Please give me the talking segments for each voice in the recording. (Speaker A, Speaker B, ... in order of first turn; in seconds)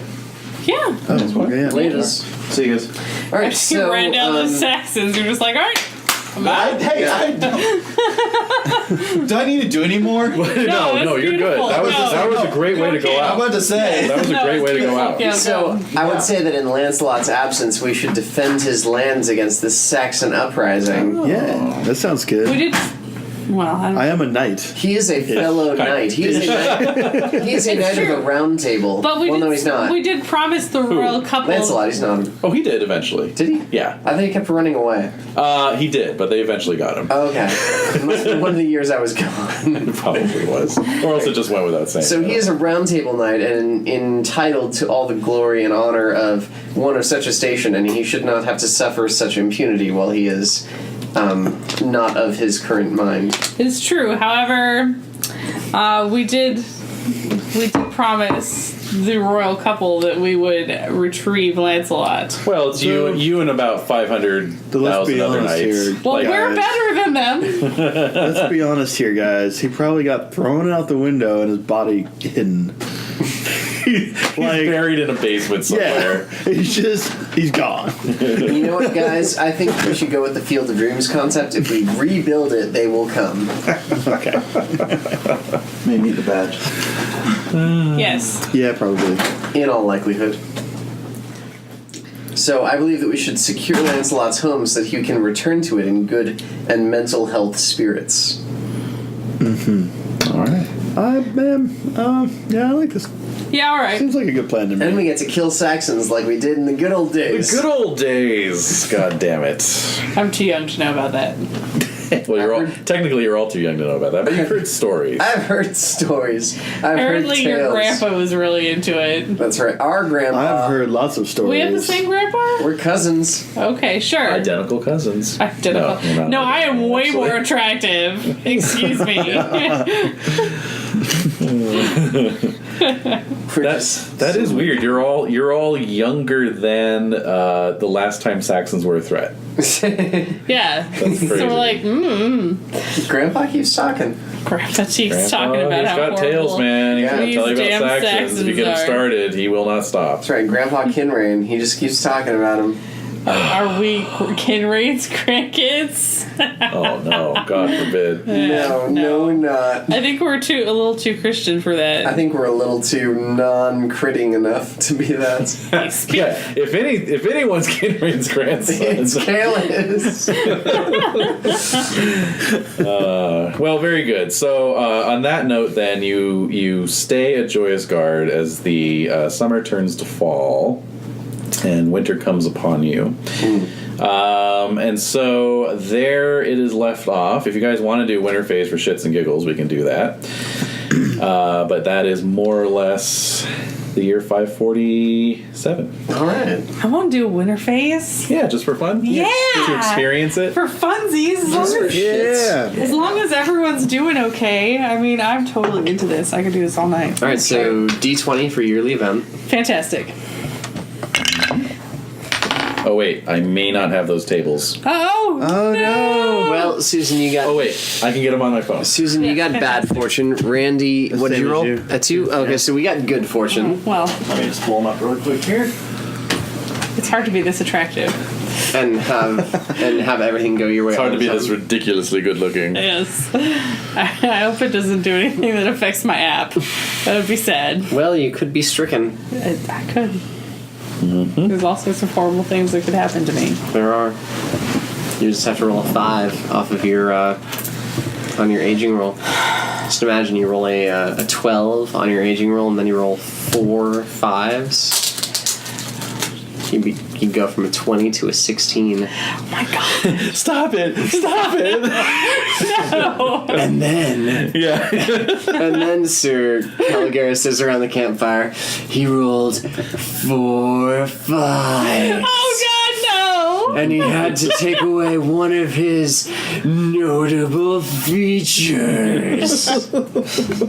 Speaker A: 0.6-1.0, 3.4-9.2, 10.3-16.3, 22.4-22.9, 23.5-24.3, 27.7-28.3, 29.0-31.8, 53.6-55.0, 55.7-56.7, 57.5-62.4, 66.0-67.8, 87.9-88.4, 103.5-104.0, 110.1-111.5, 116.9-119.4, 121.4-122.7, 123.5-124.5, 125.4-130.5, 140.5-142.6, 144.4-149.1, 153.2-162.2, 165.7-166.4, 196.8-198.3, 199.0-202.1, 202.7-207.8, 209.4-210.1, 214.8-216.7, 219.2-220.0, 223.5-224.2, 226.9-228.2, 232.7-237.9, 239.3-240.2, 241.5-243.6, 259.5-260.2, 261.1-263.6, 271.9-274.0
Speaker B: 1.1-1.9, 6.6-7.2, 12.2-12.7, 21.2-22.7, 23.9-27.8, 62.7-63.2, 64.7-66.7, 68.1-72.7, 74.2-74.9, 75.7-79.2, 84.0-84.4, 85.9-86.3, 88.5-89.2, 99.4-99.9, 101.0-103.1, 103.9-105.0, 120.3-122.0, 201.5-202.8, 215.4-216.7, 221.1-222.6
Speaker C: 1.2-2.9, 6.4-7.6, 9.2-10.4, 12.7-14.1, 85.8-86.6, 224.3-225.7
Speaker D: 1.6-2.3, 3.3-4.7, 6.9-7.3, 14.7-21.2, 24.7-30.0, 31.4-32.4, 33.3-35.1, 37.1-40.3, 41.0-41.3, 42.0-53.4, 78.3-83.5, 89.5-90.4, 92.3-98.4, 104.8-107.6, 112.3-112.7, 114.2-114.6, 115.2-118.0, 119.4-120.8, 122.6-123.4, 133.5-134.9, 139.6-140.4, 143.0-144.2, 146.9-147.6, 150.2-152.8, 158.3-160.0, 162.0-165.8, 168.7-170.9, 183.4-183.7, 196.1-196.7, 199.1-199.7, 201.4-202.7, 207.2-209.3, 216.3-217.7, 218.8-223.8, 228.7-231.5, 237.9-239.2, 243.7-244.2, 245.2-247.4, 248.3-249.2, 249.9-255.1, 256.7-259.1, 263.5-272.6, 273.7-279.8
Speaker E: 10.2-15.3, 20.9-21.8, 25.3-27.6, 30.9-31.2, 32.4-34.0, 35.3-37.9, 39.8-42.5, 62.4-66.6, 67.6-68.3, 74.0-76.3, 87.5-88.3, 100.2-100.7, 107.3-110.0, 112.1-115.3, 124.2-127.5, 129.2-129.7, 131.4-132.5, 133.6-139.3, 140.9-141.8, 145.1-150.2, 153.3-153.6, 156.7-158.3, 166.1-169.8, 170.3-172.1, 172.7-180.8, 181.6-183.2, 184.0-190.2, 191.1-195.9, 198.3-200.6, 212.8-214.8, 217.4-219.0, 230.9-232.8, 241.0-241.5, 259.9-262.7, 264.3-265.8